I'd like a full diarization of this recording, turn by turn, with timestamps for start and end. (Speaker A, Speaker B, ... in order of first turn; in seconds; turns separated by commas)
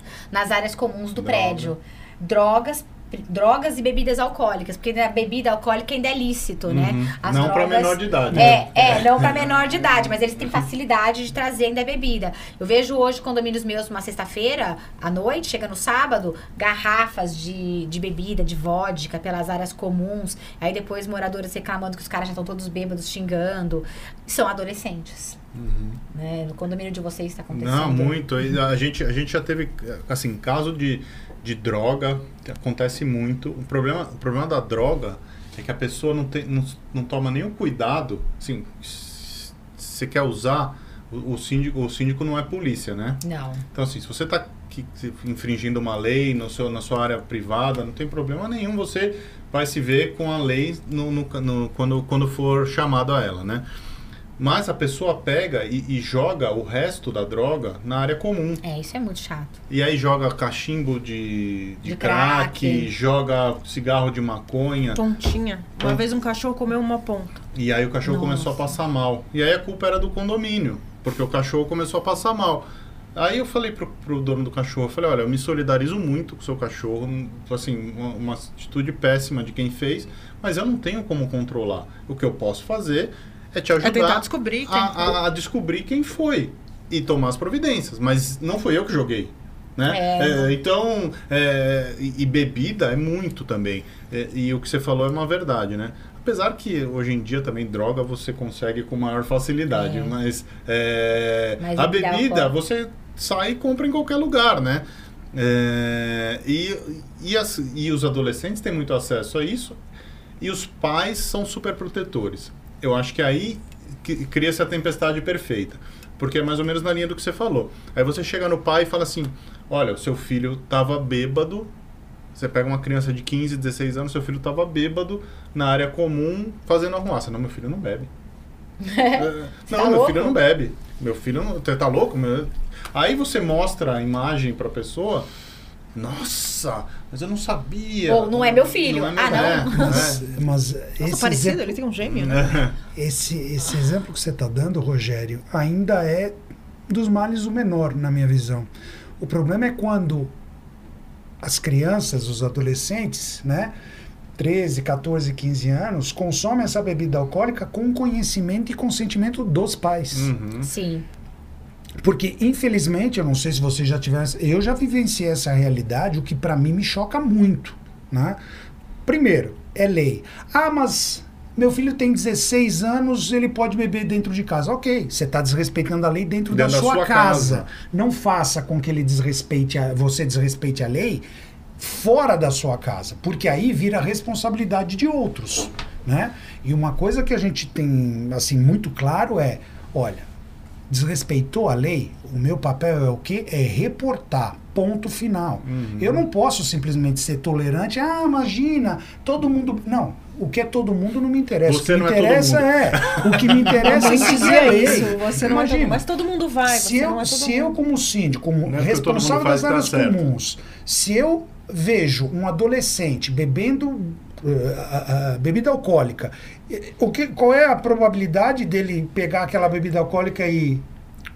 Speaker A: 0.3-25.4, Speaker B: 1.1-1.7, Speaker B: 6.7-9.9, Speaker C: 8.3-8.6, Speaker B: 25.5-26.0, Speaker A: 26.1-28.2, Speaker B: 27.5-43.2, Speaker A: 43.2-43.6, Speaker B: 43.7-53.6, Speaker B: 54.4-58.6, Speaker A: 58.6-59.5, Speaker B: 59.7-65.0, Speaker A: 61.8-62.9, Speaker D: 64.9-67.4, Speaker B: 67.5-109.8, Speaker A: 68.0-68.7, Speaker D: 83.8-85.2, Speaker A: 89.9-90.5, Speaker A: 99.7-100.1, Speaker A: 101.6-102.5, Speaker B: 110.4-121.7, Speaker B: 122.3-128.1, Speaker A: 128.8-130.4, Speaker B: 129.1-135.3, Speaker B: 135.9-140.2, Speaker A: 138.1-140.1, Speaker C: 139.7-146.3, Speaker D: 141.0-142.6, Speaker B: 142.0-142.7, Speaker C: 146.9-150.3, Speaker C: 151.4-153.7, Speaker C: 154.4-160.3, Speaker B: 160.1-160.7, Speaker A: 160.6-161.0, Speaker C: 162.0-168.4, Speaker C: 169.1-181.2, Speaker B: 176.5-177.7, Speaker C: 181.8-190.3, Speaker C: 190.9-206.0, Speaker B: 195.7-196.2, Speaker B: 201.7-205.0, Speaker D: 203.7-207.8, Speaker C: 206.7-220.8, Speaker B: 208.7-210.2